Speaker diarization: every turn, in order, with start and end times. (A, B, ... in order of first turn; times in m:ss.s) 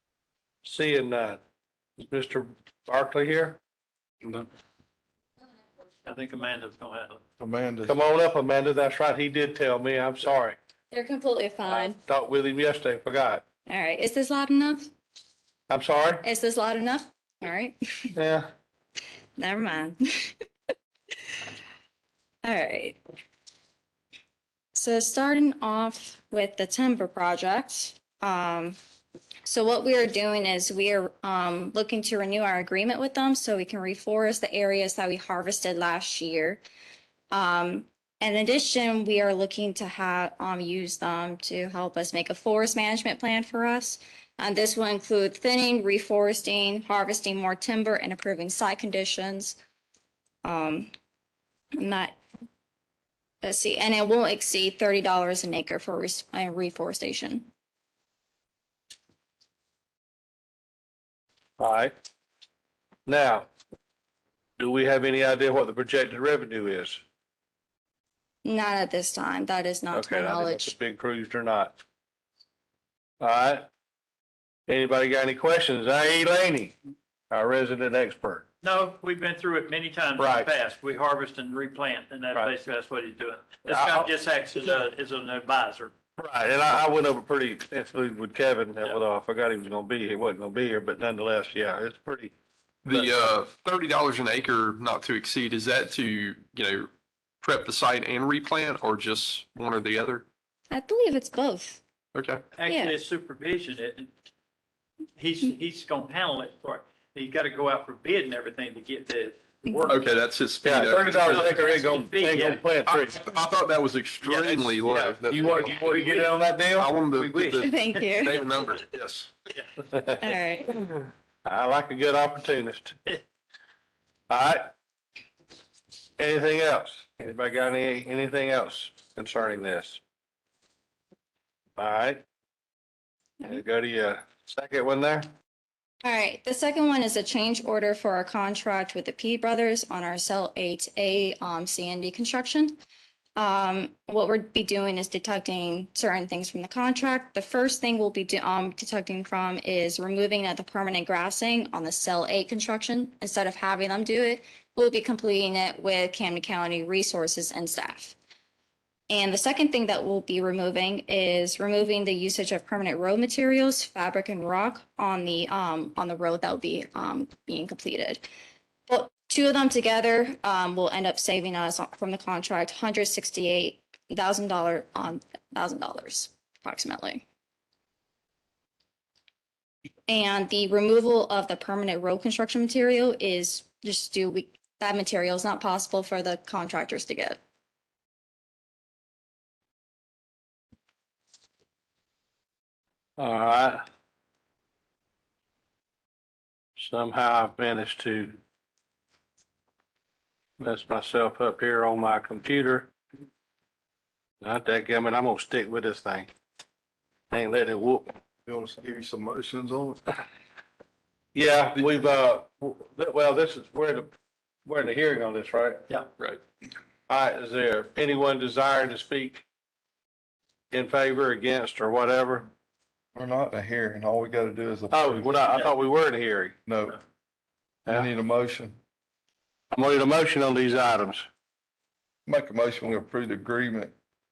0:00.6-0:01.4 A
0:02.0-0:03.6 A
0:06.0-0:07.2 B
0:07.4-0:08.0 C
0:07.8-0:10.6 A
0:10.9-0:12.0 D
0:11.7-0:13.4 A
0:13.7-0:14.9 D
0:15.7-0:16.2 A
0:16.2-0:18.1 D
0:18.2-0:18.5 A
0:19.4-0:20.4 D
0:22.4-0:23.0 D
0:24.7-0:28.8 D
0:29.5-0:36.6 D
0:37.3-0:49.6 D
0:50.4-0:50.9 D
0:51.8-0:52.2 D
0:53.4-0:57.5 D
1:01.6-1:01.9 A
1:03.1-1:03.5 A
1:04.6-1:07.0 A
1:08.4-1:10.7 D
1:09.9-1:11.8 A
1:13.2-1:13.7 A
1:14.7-1:16.7 A
1:17.3-1:18.5 A
1:18.6-1:25.9 B
1:20.2-1:20.5 A
1:23.7-1:24.1 A
1:26.2-1:32.3 A
1:32.8-1:36.9 E
1:37.4-1:40.2 E
1:40.7-1:41.8 D
1:42.1-1:42.4 E
1:42.5-1:44.1 B
1:42.6-1:43.0 D
1:45.2-1:50.2 B
1:49.9-1:51.6 E
1:50.6-1:53.2 A
1:50.9-1:52.7 B
1:52.9-1:56.0 E
1:54.3-1:54.6 A
1:54.5-1:55.2 B
1:55.3-1:56.9 A
1:56.8-1:59.3 E
1:57.1-1:57.8 B
1:57.6-1:58.5 D
2:00.2-2:00.8 D
2:01.4-2:03.0 A
2:04.3-2:04.7 A
2:06.2-2:10.0 A
2:11.8-2:12.2 A
2:13.4-2:15.3 A
2:16.0-2:22.8 D
2:23.4-2:38.2 D
2:39.1-2:48.3 D
2:48.9-2:57.2 D
3:00.1-3:07.4 D
3:13.2-3:13.8 A
3:16.8-3:18.4 A
3:20.6-3:22.9 A
3:24.4-3:26.3 A
3:27.3-3:28.1 A
3:28.5-3:30.0 C
3:31.3-3:34.1 A
3:34.6-3:35.8 A
3:37.1-3:39.4 A
3:40.7-3:42.5 A
3:43.2-3:45.3 C
3:44.9-3:46.6 A
3:46.7-3:47.0 C
3:47.9-3:48.8 C
3:49.7-3:51.3 A
3:52.3-3:53.9 C